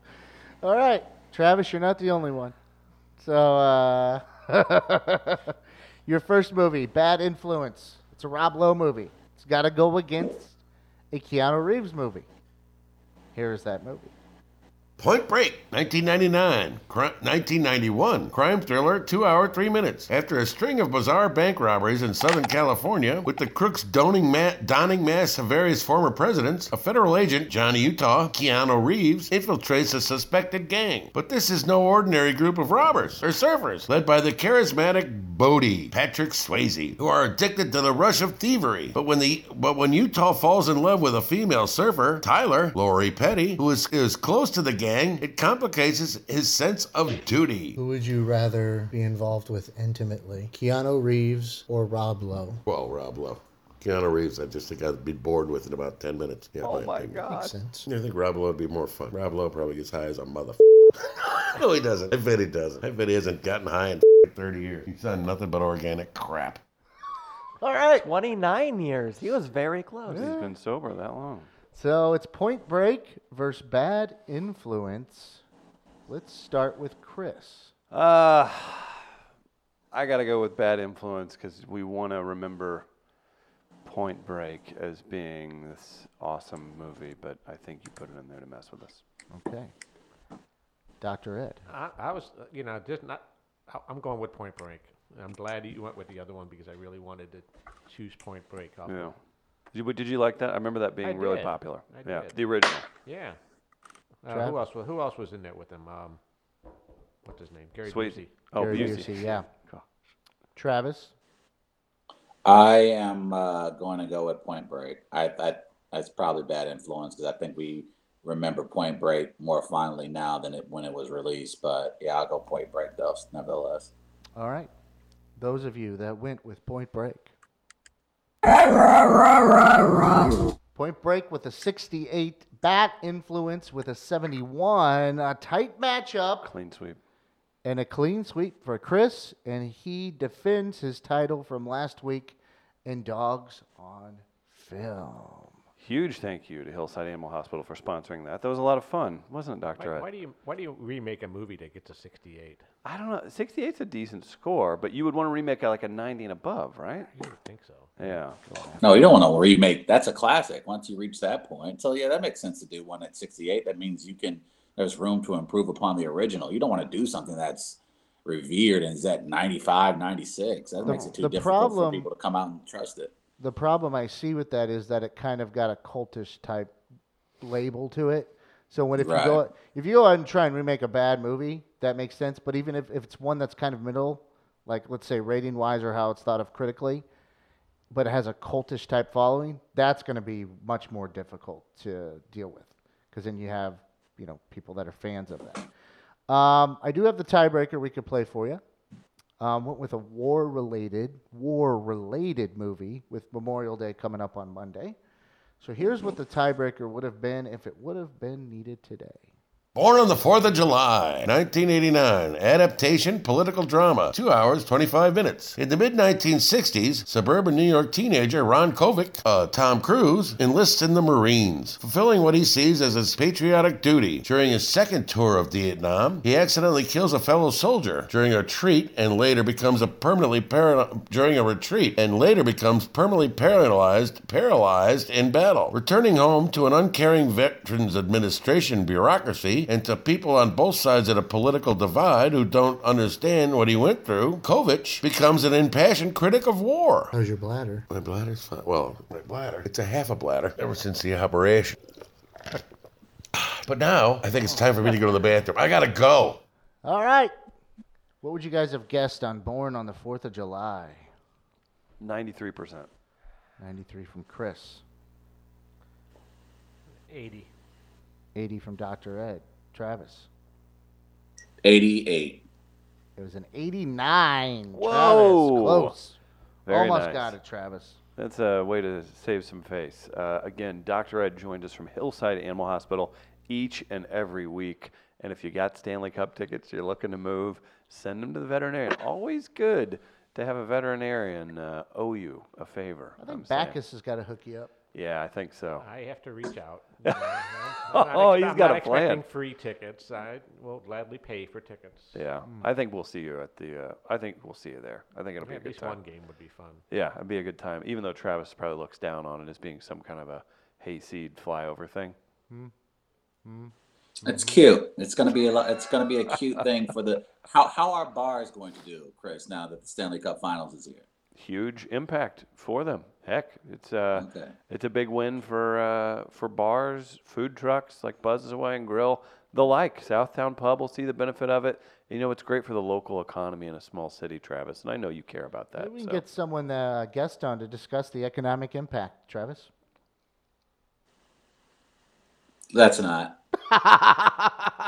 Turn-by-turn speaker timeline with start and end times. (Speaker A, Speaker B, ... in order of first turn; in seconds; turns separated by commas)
Speaker A: 0.6-2.5, Speaker A: 3.2-10.6, Speaker A: 11.1-12.3, Speaker A: 13.3-14.1, Speaker B: 15.0-47.8, Speaker C: 47.8-52.6, Speaker B: 52.6-57.3, Speaker D: 56.6-57.5, Speaker C: 57.3-57.9, Speaker B: 57.9-66.6, Speaker A: 67.6-68.1, Speaker E: 68.0-70.3, Speaker A: 70.1-70.5, Speaker D: 70.2-71.5, Speaker A: 71.7-75.4, Speaker A: 76.1-77.7, Speaker D: 77.9-79.1, Speaker D: 79.9-82.9, Speaker D: 83.8-89.0, Speaker A: 89.3-89.7, Speaker A: 91.0-91.6, Speaker F: 91.7-99.2, Speaker D: 98.9-99.1, Speaker D: 99.7-102.9, Speaker F: 101.0-102.4, Speaker F: 103.0-103.4, Speaker F: 104.2-106.2, Speaker A: 104.3-104.6, Speaker F: 107.2-109.1, Speaker D: 107.8-109.8, Speaker A: 108.6-109.5, Speaker A: 110.6-111.1, Speaker G: 112.5-123.9, Speaker A: 124.4-124.7, Speaker A: 125.4-127.3, Speaker A: 130.8-136.5, Speaker D: 136.4-137.0, Speaker A: 137.6-145.6, Speaker D: 145.8-150.1, Speaker F: 149.8-152.6, Speaker D: 152.8-157.1, Speaker F: 157.1-158.8, Speaker D: 158.0-158.4, Speaker A: 158.5-158.9, Speaker G: 158.8-173.1, Speaker A: 170.8-172.1, Speaker A: 173.4-176.8, Speaker A: 177.4-187.1, Speaker G: 179.0-179.4, Speaker A: 187.9-195.7, Speaker A: 196.3-198.6, Speaker A: 199.4-205.0, Speaker A: 205.6-209.3, Speaker B: 209.8-247.1, Speaker C: 247.1-247.8, Speaker B: 247.9-251.8, Speaker B: 253.3-256.4, Speaker A: 256.8-257.4, Speaker A: 258.2-261.1, Speaker D: 262.0-262.9, Speaker A: 263.6-264.8, Speaker F: 267.1-267.5, Speaker A: 268.4-270.3, Speaker G: 271.6-272.4, Speaker A: 273.2-278.0, Speaker D: 274.7-275.9, Speaker D: 276.7-277.3, Speaker D: 278.2-293.8, Speaker A: 293.2-294.7, Speaker D: 294.9-295.9, Speaker F: 295.8-302.2, Speaker D: 297.9-299.2, Speaker D: 302.1-306.0, Speaker F: 305.4-306.8, Speaker D: 306.9-312.2, Speaker A: 313.4-313.7, Speaker G: 314.2-321.1, Speaker D: 321.4-336.2, Speaker G: 324.1-324.5, Speaker A: 335.8-339.7, Speaker G: 342.7-343.4, Speaker A: 343.9-344.2